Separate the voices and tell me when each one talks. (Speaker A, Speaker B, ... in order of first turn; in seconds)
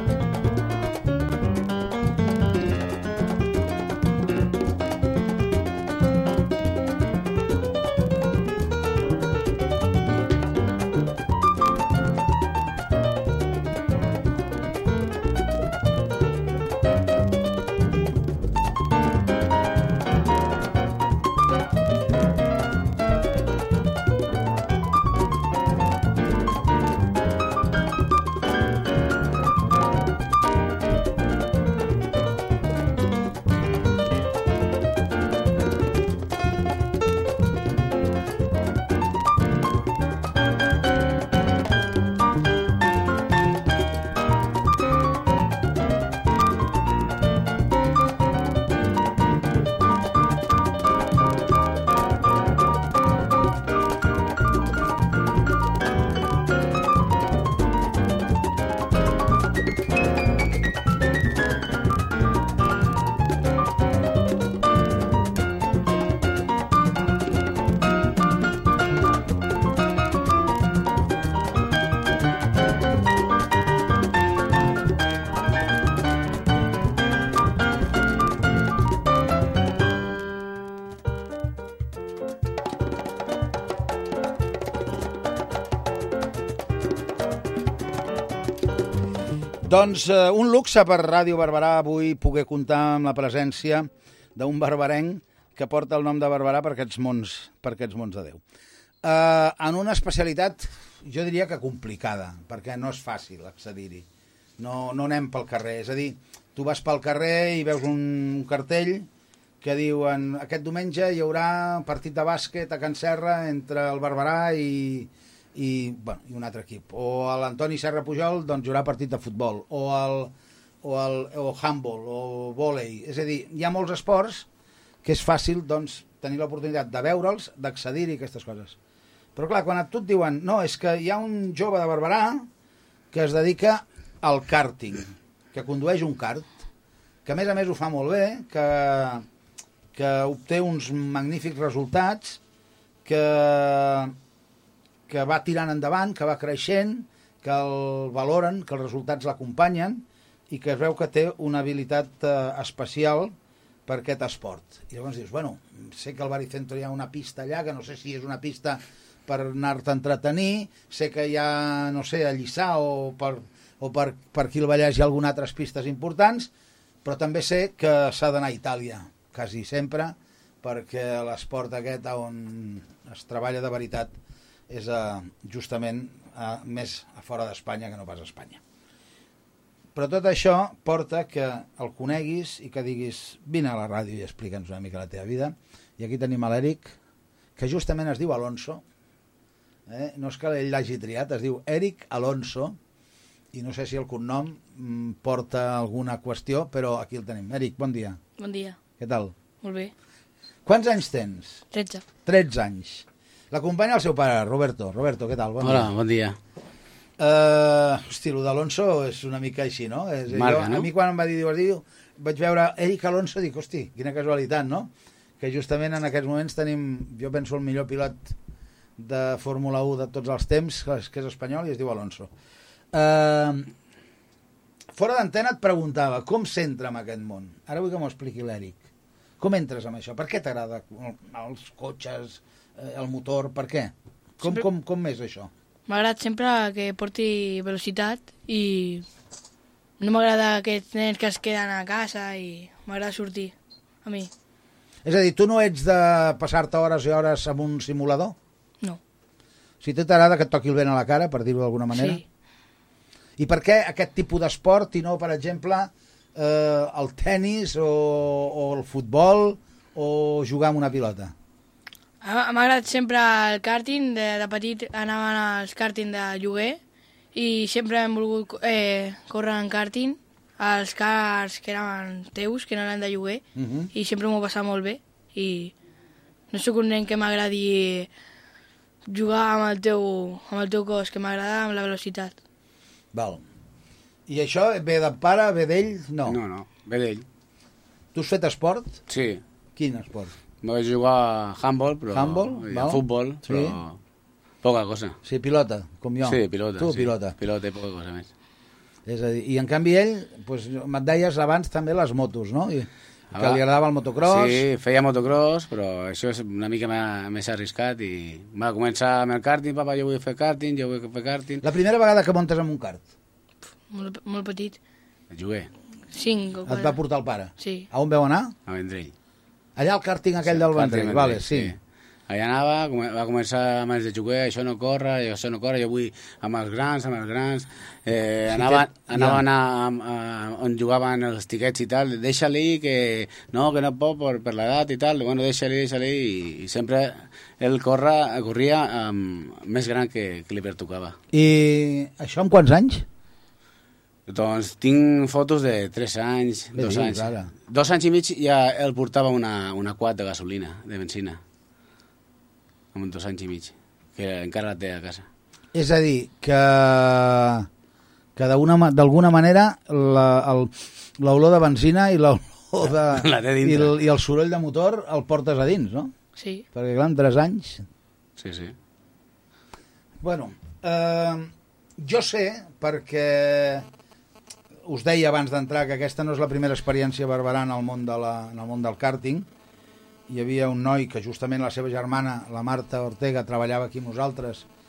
Speaker A: 89.6-98.4, 99.0-104.0, 104.6-109.1, 109.6-124.5, 125.0-128.8, 129.3-132.5, 133.1-136.5, 137.2-139.2, 139.9-142.4, 143.0-144.1, 145.1-153.3, 153.8-166.5, 167.0-174.1, 174.7-178.6, 179.9-186.9, 187.6-188.8, 189.9-192.8, 193.5-198.2, 199.0-199.3, 200.7-201.6, 202.2-205.9, 207.2-218.3, 219.0-222.3, 222.9-223.7, 224.9-228.8, 229.4-235.5, 245.0-248.3, 249.8-252.2, 253.4-261.3, 273.5-273.9, 283.1-283.4, 284.3-286.4, 288.1-289.0, 289.8-290.3, 292.1-293.8, 295.2-297.3, 299.1-304.6, 311.6-313.0, 316.6-318.5, 319.8-321.7, 328.5-329.4, 341.3-343.0, 346.8-347.5, 355.7-357.7, 358.4-366.1, 366.7-367.8, 370.2-373.8, 374.9-379.5, 380.3-384.6
Speaker B: 198.4-198.8, 199.6-199.9, 201.7-202.0, 235.9-239.0, 240.0-243.5, 244.0-244.3, 251.9-252.2, 262.2-266.8, 267.3-273.4, 273.9-275.7, 276.5-278.1, 279.1-282.3, 313.9-314.8, 316.1-317.0, 317.6-317.9, 366.4-366.6
Speaker C: 205.6-206.4, 210.3-210.9, 286.2-287.2, 289.1-289.4, 290.6-294.0, 294.6-295.2, 296.2-298.3, 303.3-303.6, 304.2-311.6, 315.3-315.7, 318.7-319.1, 320.4-321.8, 322.3-341.2, 344.3-351.4, 352.9-355.3, 362.9-363.9, 368.4-368.7